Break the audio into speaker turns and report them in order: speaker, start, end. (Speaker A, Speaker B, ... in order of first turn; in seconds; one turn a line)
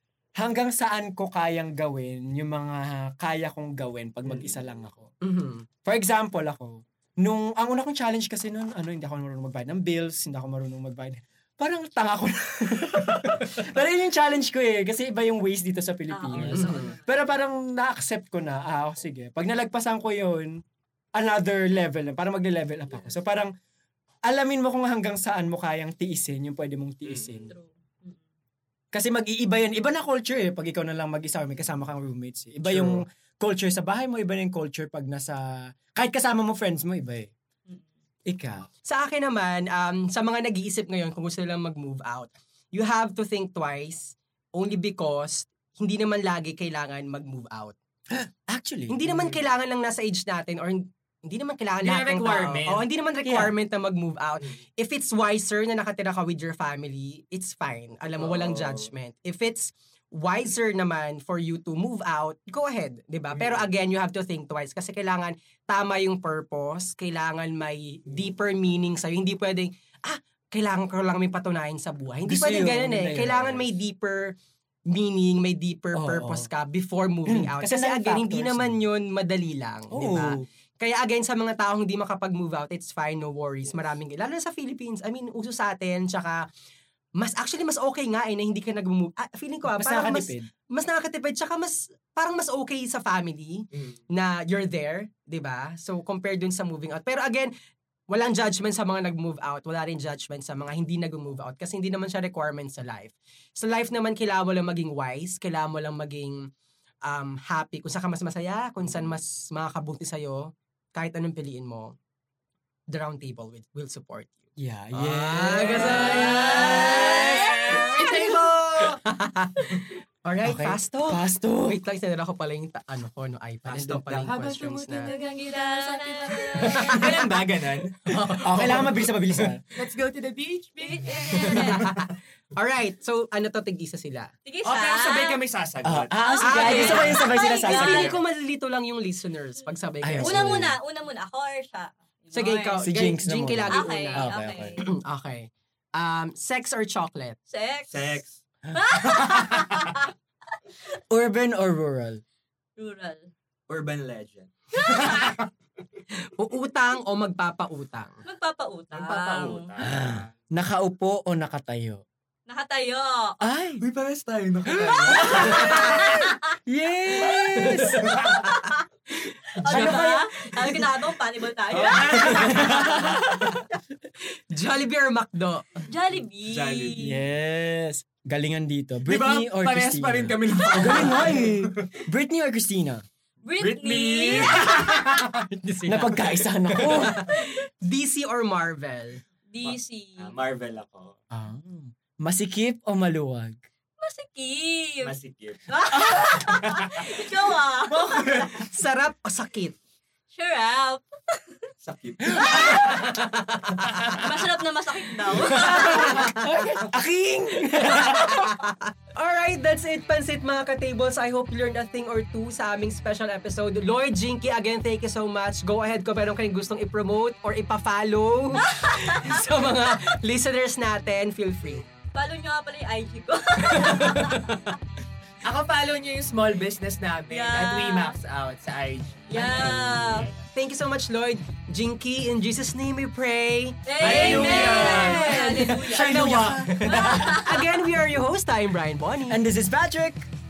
Speaker A: 0.4-5.1
Speaker B: 4.3-4.5
Speaker C: 5.2-5.7
Speaker A: 5.8-20.6
Speaker D: 16.1-17.3
Speaker B: 16.3-16.7
Speaker C: 16.5-16.9
Speaker A: 21.1-23.5
Speaker A: 24.2-27.5
Speaker B: 27.0-27.5
Speaker D: 27.5-28.2
Speaker A: 28.9-37.3
Speaker B: 32.6-33.0
Speaker A: 38.2-38.7
Speaker C: 38.9-47.7
Speaker A: 48.1-49.1
Speaker C: 48.9-74.3
Speaker B: 49.1-49.4
Speaker B: 51.8-52.9
Speaker A: 53.2-53.5
Speaker B: 58.2-58.9
Speaker B: 63.3-63.7
Speaker A: 72.2-73.7
Speaker C: 74.8-86.4
Speaker A: 75.9-76.5
Speaker A: 77.3-78.8
Speaker A: 79.9-80.5
Speaker C: 87.2-97.5
Speaker A: 89.7-90.5
Speaker B: 93.7-94.0
Speaker C: 98.1-106.5
Speaker C: 107.0-112.0
Speaker C: 112.9-125.1
Speaker A: 114.6-118.1
Speaker D: 115.8-118.4
Speaker B: 117.0-119.0
Speaker A: 120.4-121.8
Speaker B: 123.7-128.1
Speaker D: 125.0-127.2
Speaker C: 126.6-127.4
Speaker C: 128.0-129.5
Speaker A: 128.3-129.6
Speaker B: 129.7-131.9
Speaker D: 130.8-132.0
Speaker C: 131.3-134.3
Speaker D: 134.4-135.4
Speaker B: 134.6-137.2
Speaker A: 135.8-138.2
Speaker D: 136.2-138.2
Speaker C: 136.4-140.7
Speaker A: 140.0-140.8
Speaker D: 140.2-142.8
Speaker C: 142.3-144.3
Speaker A: 142.8-144.8
Speaker D: 143.7-144.8
Speaker C: 144.8-147.4
Speaker D: 147.5-148.2
Speaker B: 147.9-148.4
Speaker D: 148.7-150.1
Speaker B: 148.9-150.0
Speaker A: 151.1-152.2
Speaker D: 152.8-153.3
Speaker B: 153.7-155.5
Speaker D: 154.7-155.3
Speaker C: 156.1-158.2
Speaker D: 158.2-159.7
Speaker B: 158.9-160.3
Speaker A: 159.8-162.0
Speaker D: 162.5-163.4
Speaker A: 163.4-163.8
Speaker B: 163.8-166.2
Speaker A: 164.9-168.4
Speaker C: 165.3-165.7
Speaker D: 165.4-166.3
Speaker C: 167.3-168.7
Speaker B: 168.0-168.5
Speaker D: 168.3-168.8
Speaker C: 169.3-170.9
Speaker D: 169.6-173.8
Speaker B: 169.7-170.2
Speaker A: 169.7-170.2
Speaker B: 171.7-173.5
Speaker C: 172.3-173.6
Speaker C: 174.5-175.8
Speaker D: 175.8-177.2
Speaker B: 176.4-177.1
Speaker A: 177.0-183.0
Speaker B: 179.1-182.0
Speaker D: 180.6-181.2
Speaker D: 183.4-185.2
Speaker B: 183.6-185.4
Speaker C: 185.5-189.2
Speaker A: 185.9-187.3
Speaker D: 189.5-190.3
Speaker B: 189.6-191.2
Speaker A: 191.3-193.6
Speaker D: 194.0-195.1
Speaker B: 195.0-197.2
Speaker D: 195.7-198.6
Speaker A: 195.9-196.5
Speaker B: 197.9-198.6
Speaker C: 198.5-199.8
Speaker D: 200.3-201.7
Speaker B: 201.8-203.0
Speaker A: 202.2-202.9
Speaker D: 202.4-203.2
Speaker C: 202.8-204.1
Speaker D: 204.0-206.4
Speaker A: 205.5-208.6
Speaker B: 205.5-205.9
Speaker C: 205.5-206.8
Speaker C: 207.8-221.8
Speaker D: 218.7-219.5
Speaker D: 222.1-224.5
Speaker C: 223.6-224.5
Speaker B: 225.4-230.3
Speaker D: 227.3-228.1
Speaker D: 229.3-230.3
Speaker C: 230.5-239.4
Speaker D: 233.8-236.2
Speaker B: 234.0-236.7
Speaker A: 235.8-237.5
Speaker D: 236.8-237.8
Speaker A: 239.3-240.3